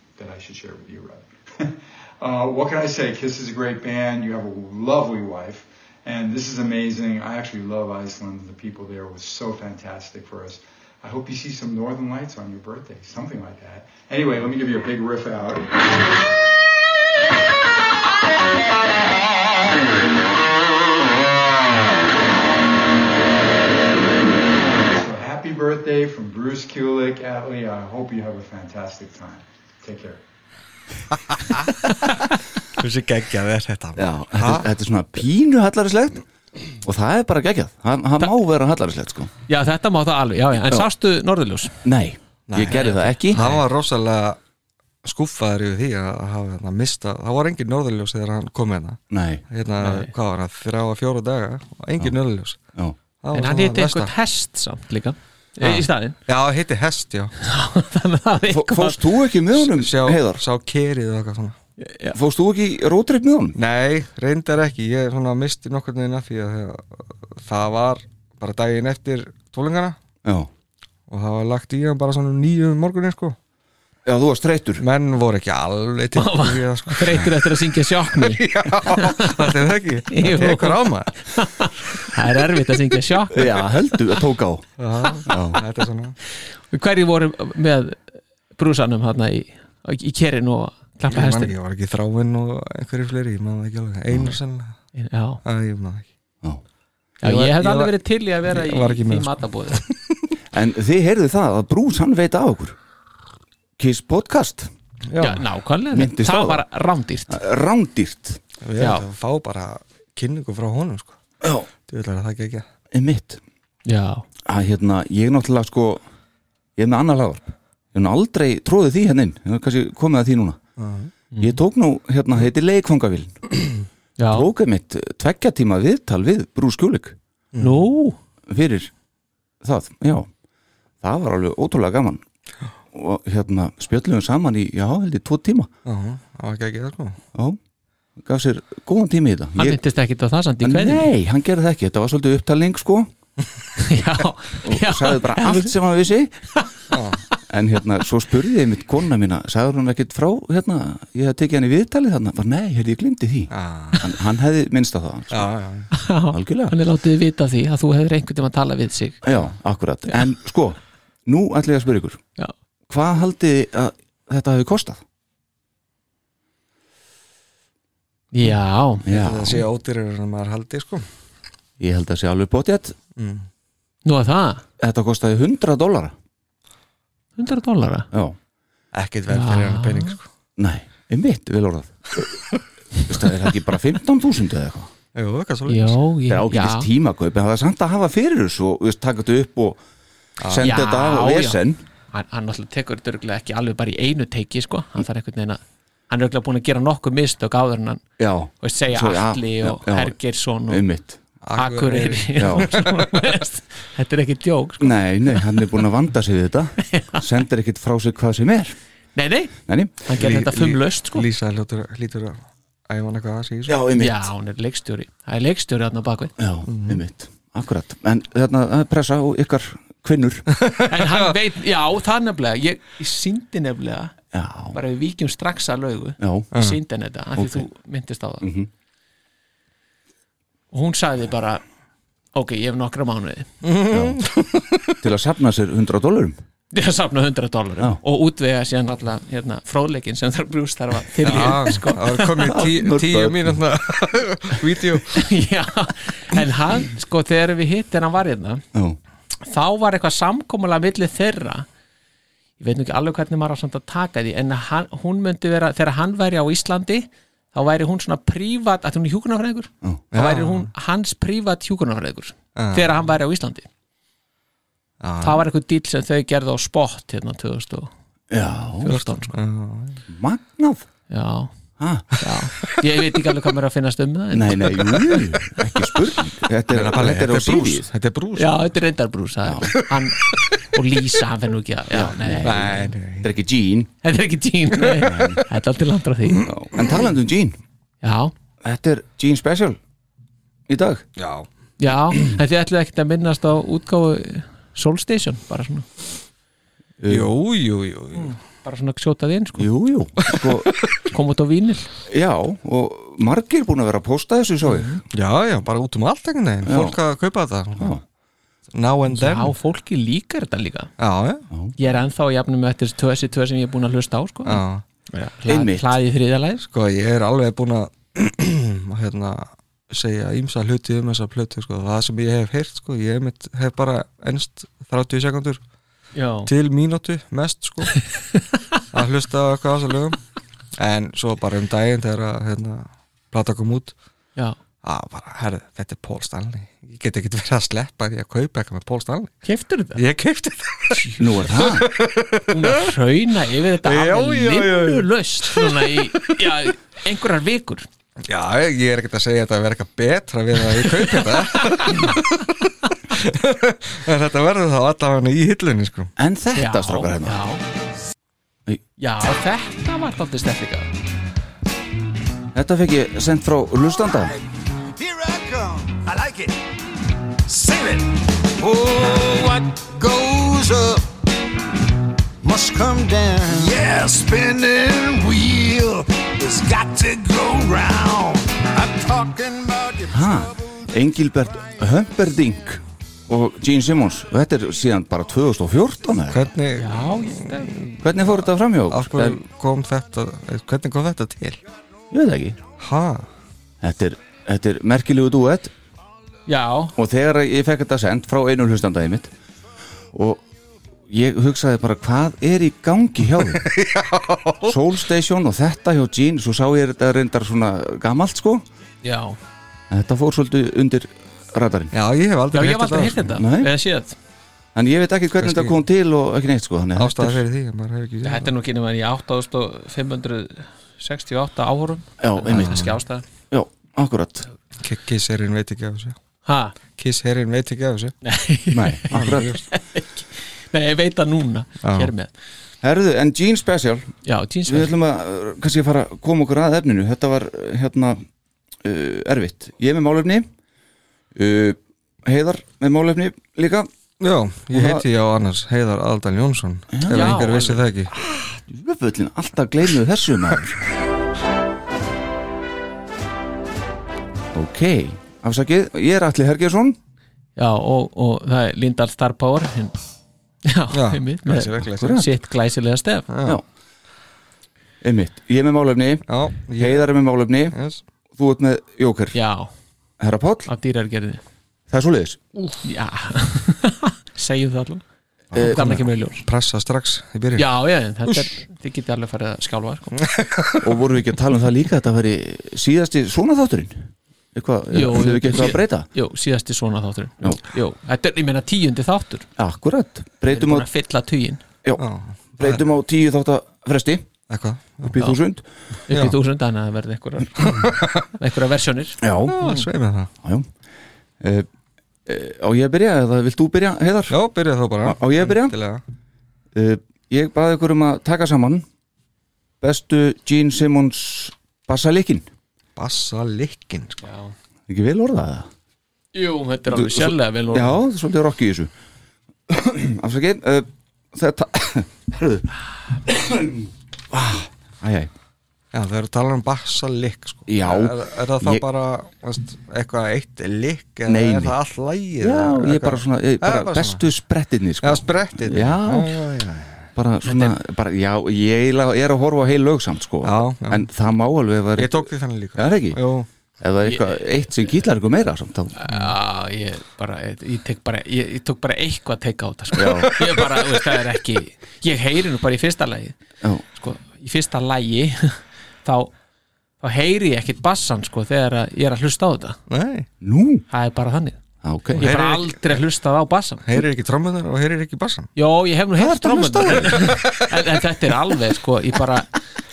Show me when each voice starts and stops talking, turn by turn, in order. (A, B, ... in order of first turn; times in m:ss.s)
0:00.2-0:15.7 A
0:24.8-0:30.2 A
0:32.7-0:34.7 B
0:34.0-0:36.2 C
0:36.8-0:39.3 C
0:39.5-0:41.8 D
0:41.8-0:43.5 C
0:42.5-0:44.4 B
0:42.7-0:43.5 D
0:45.0-0:49.0 B
0:49.1-0:49.4 C
0:49.5-0:52.6 B
0:49.8-0:50.1 D
0:53.2-0:54.1 B
0:53.3-0:56.2 D
0:55.6-0:57.3 B
0:57.4-0:59.0 D
0:58.5-1:00.4 C
0:59.8-1:01.6 B
1:01.8-1:02.2 D
1:02.1-1:03.6 C
1:03.6-1:10.0 B
1:10.2-1:10.5 C
1:11.1-1:13.4 B
1:14.0-1:14.8 C
1:14.8-1:17.3 B
1:16.2-1:19.5 D
1:18.1-1:21.1 B
1:20.1-1:23.5 D
1:23.3-1:24.7 C
1:24.8-1:26.2 B
1:25.3-1:25.6 C
1:26.7-1:31.5 D
1:31.1-1:34.8 B
1:34.1-1:34.4 C
1:34.9-1:35.4 D
1:35.4-1:36.0 B
1:37.2-1:39.8 D
1:37.2-1:39.9 B
1:40.5-1:42.8 C
1:43.8-1:44.7 C
1:45.1-1:45.4 B
1:45.2-1:47.4 D
1:45.9-1:46.6 C
1:47.3-1:48.4 C
1:48.6-1:51.2 B
1:48.8-1:49.1 D
1:51.4-1:51.7 C
1:51.9-1:52.6 B
1:52.9-1:53.4 C
1:53.8-1:54.2 D
1:54.4-1:56.0 C
1:56.8-2:00.6 C
2:00.8-2:01.1 B
2:01.3-2:01.6 D
2:01.4-2:03.5 C
2:04.2-2:04.5 D
2:04.3-2:07.2 C
2:07.5-2:07.8 B
2:07.6-2:08.2 D
2:08.5-2:08.9 C
2:09.6-2:10.3 C
2:11.0-2:12.2 C
2:12.9-2:15.7 C
2:15.8-2:17.2 B
2:18.2-2:19.8 C
2:19.6-2:21.1 D
2:20.6-2:23.1 C
2:23.8-2:25.7 D
2:24.6-2:26.3 C
2:26.9-2:27.2 B
2:27.5-2:35.5 C
2:33.5-2:34.0 B
2:35.3-2:35.9 B
2:35.9-2:39.3 D
2:36.3-2:36.7 C
2:39.2-2:42.2 C
2:42.9-2:45.0 C
2:48.3-2:49.0 D
2:49.0-2:49.6 C
2:49.1-2:51.1 B
2:51.8-2:53.0 C
2:53.2-2:53.5 B
2:54.0-2:54.6 D
2:54.8-2:56.1 C
2:57.4-2:58.1 D
2:58.1-2:58.4 C
2:58.9-3:00.2 B
2:59.3-3:00.2 D
3:00.6-3:02.3 C
3:03.0-3:04.9 C
3:05.1-3:06.0 B
3:05.7-3:06.9 D
3:06.3-3:09.8 C
3:10.4-3:10.7 B
3:10.4-3:11.8 C
3:10.6-3:11.6 D
3:12.1-3:18.0 D
3:18.2-3:20.2 C
3:18.6-3:20.8 D
3:20.7-3:21.2 C
3:21.4-3:23.3 B
3:21.6-3:25.6 D
3:22.4-3:22.7 C
3:24.8-3:28.7 C
3:26.8-3:27.2 D
3:29.2-3:31.3 D
3:29.7-3:29.9 C
3:30.2-3:33.8 B
3:33.7-3:34.3 C
3:34.0-3:36.3 D
3:36.4-3:40.4 C
3:36.7-3:37.0 B
3:40.6-3:41.3 B
3:40.9-3:44.1 D
3:44.3-3:44.8 C
3:44.7-3:48.4 D
3:46.2-3:46.5 C
3:46.5-3:46.8 B
3:47.4-3:47.7 C
3:48.4-3:48.7 C
3:50.7-3:51.6 D
3:52.3-3:53.5 D
3:53.6-3:55.0 B
3:53.9-3:54.2 C
3:55.0-3:56.4 C
3:56.7-4:02.6 D
4:01.2-4:05.3 B
4:02.4-4:03.5 C
4:05.1-4:08.6 D
4:09.4-4:11.6 D
4:12.6-4:23.7 D
4:20.1-4:20.7 B
4:22.6-4:23.0 B
4:25.0-4:25.4 B
4:25.2-4:27.9 D
4:28.3-4:28.9 C
4:28.8-4:29.4 D
4:28.9-4:30.0 B
4:30.1-4:30.8 C
4:31.1-4:31.5 D
4:31.8-4:32.2 C
4:32.2-4:35.0 D
4:34.3-4:37.9 C
4:36.7-4:38.6 B
4:38.4-4:42.9 D
4:39.4-4:39.7 C
4:39.9-4:40.4 B
4:41.9-4:43.9 C
4:42.4-4:43.3 B
4:44.0-4:46.5 D
4:45.0-4:45.4 C
4:46.4-4:47.6 C
4:48.0-4:48.3 D
4:48.6-4:49.8 C
4:50.7-4:51.0 C
4:51.2-4:51.5 B
4:51.8-4:55.9 D
4:57.0-4:57.3 C
4:57.1-4:58.3 B
4:58.1-4:59.7 D
4:59.6-5:00.7 C
5:01.1-5:01.9 D
5:02.1-5:05.0 C
5:04.6-5:05.0 D
5:05.1-5:08.0 B
5:06.6-5:07.0 C
5:07.8-5:08.0 C
5:08.7-5:09.5 B
5:09.1-5:10.9 D
5:11.0-5:11.4 B
5:11.8-5:16.6 D
5:14.4-5:14.8 B
5:15.5-5:15.9 C
5:16.6-5:25.6 B
5:26.1-5:26.5 D
5:26.4-5:28.1 B
5:28.9-5:30.2 B
5:30.8-5:33.9 B
5:34.8-5:39.3 B
5:39.4-5:40.0 D
5:40.0-5:42.9 B
5:41.2-5:41.9 C
5:42.5-5:47.9 D
5:43.8-5:46.3 B
5:48.3-5:56.1 B
5:51.0-5:52.2 D
5:56.2-5:57.4 C
5:56.6-5:57.6 D
5:59.0-6:00.9 D
6:02.5-6:04.4 C
6:04.9-6:06.6 E
6:07.4-6:11.1 E
6:12.4-6:20.5 E
6:20.1-6:26.5 C
6:26.3-6:31.6 B
6:26.8-6:27.7 D
6:28.0-6:29.4 C
6:32.1-6:32.6 C
6:32.8-6:33.3 B
6:33.8-6:35.7 C
6:36.5-6:36.9 D
6:37.0-6:39.3 C
6:40.1-6:40.4 C
6:41.1-6:43.7 C
6:43.5-6:44.8 B
6:44.6-6:48.6 C
6:49.0-6:49.4 D
6:49.9-6:51.9 C
6:51.9-6:53.3 B
6:52.5-6:54.2 D
6:53.4-6:53.7 C
6:54.7-6:57.4 C
6:55.4-6:55.7 B
6:57.0-6:58.5 B
6:58.2-7:03.2 D
7:02.2-7:02.9 C
7:02.5-7:03.0 B
7:03.5-7:04.4 C
7:04.8-7:06.2 B
7:06.4-7:06.7 D
7:07.0-7:08.1 B
7:08.2-7:12.3 D
7:08.7-7:09.6 C
7:09.1-7:09.6 B
7:11.8-7:12.1 B
7:12.8-7:14.1 C
7:14.2-7:14.9 D
7:14.6-7:18.2 C
7:18.8-7:20.5 C
7:21.3-7:23.9 C
7:24.2-7:28.2 B
7:24.7-7:25.0 C
7:26.9-7:27.5 C
7:27.1-7:27.8 D
7:28.7-7:30.8 C
7:34.5-7:37.0 C
7:37.6-7:39.9 D
7:40.6-7:43.2 D
7:40.9-7:42.2 B
7:42.0-7:42.3 C
7:43.3-7:43.6 B
7:45.0-7:47.7 C
7:46.3-7:47.1 B
7:47.7-7:48.0 B
7:48.3-7:49.4 C
7:49.3-7:49.7 D
7:50.2-7:50.7 C
7:50.7-7:51.4 D
7:51.9-7:52.4 C
7:52.8-7:55.0 D
7:55.5-7:55.9 C
7:55.5-7:57.7 B
7:55.6-7:56.4 D
7:57.6-8:00.2 D
8:00.2-8:00.9 B
8:00.8-8:06.1 C
8:04.9-8:09.5 D
8:09.6-8:10.9 C
8:10.5-8:11.6 D
8:12.0-8:12.8 B
8:12.6-8:14.3 C
8:14.5-8:15.2 B
8:15.0-8:15.6 C
8:16.1-8:19.9 D
8:16.1-8:16.4 B
8:17.6-8:18.3 B
8:19.2-8:19.6 C
8:19.4-8:20.3 B
8:20.4-8:20.7 C
8:21.4-8:21.7 C
8:22.2-8:24.4 C
8:24.3-8:26.0 B
8:25.0-8:25.8 C
8:26.7-8:28.8 C
8:29.8-8:32.5 C
8:33.0-8:34.2 B
8:34.2-8:34.5 D
8:34.9-8:35.7 C
8:36.3-8:38.0 D
8:36.9-8:38.9 C
8:39.7-8:42.7 C
8:43.2-8:45.3 C
8:45.9-8:54.2 B
8:47.7-8:48.8 C
8:51.3-8:51.8 C
8:52.4-8:56.4 C
8:55.0-8:57.1 B
8:57.2-9:03.2 C
8:57.4-8:57.7 D
9:00.4-9:01.0 B
9:02.0-9:03.5 B
9:03.8-9:06.0 C
9:04.0-9:04.4 D
9:06.0-9:13.4 D
9:09.9-9:10.3 C
9:10.0-9:11.0 B
9:13.9-9:16.3 D
9:17.0-9:19.8 D
9:19.9-9:20.3 B
9:20.4-9:20.8 C
9:20.9-9:21.6 D
9:21.8-9:22.3 C
9:22.1-9:23.8 D
9:22.2-9:23.0 B
9:23.8-9:25.5 B
9:25.6-9:29.5 D
9:26.2-9:27.9 B
9:26.5-9:27.1 C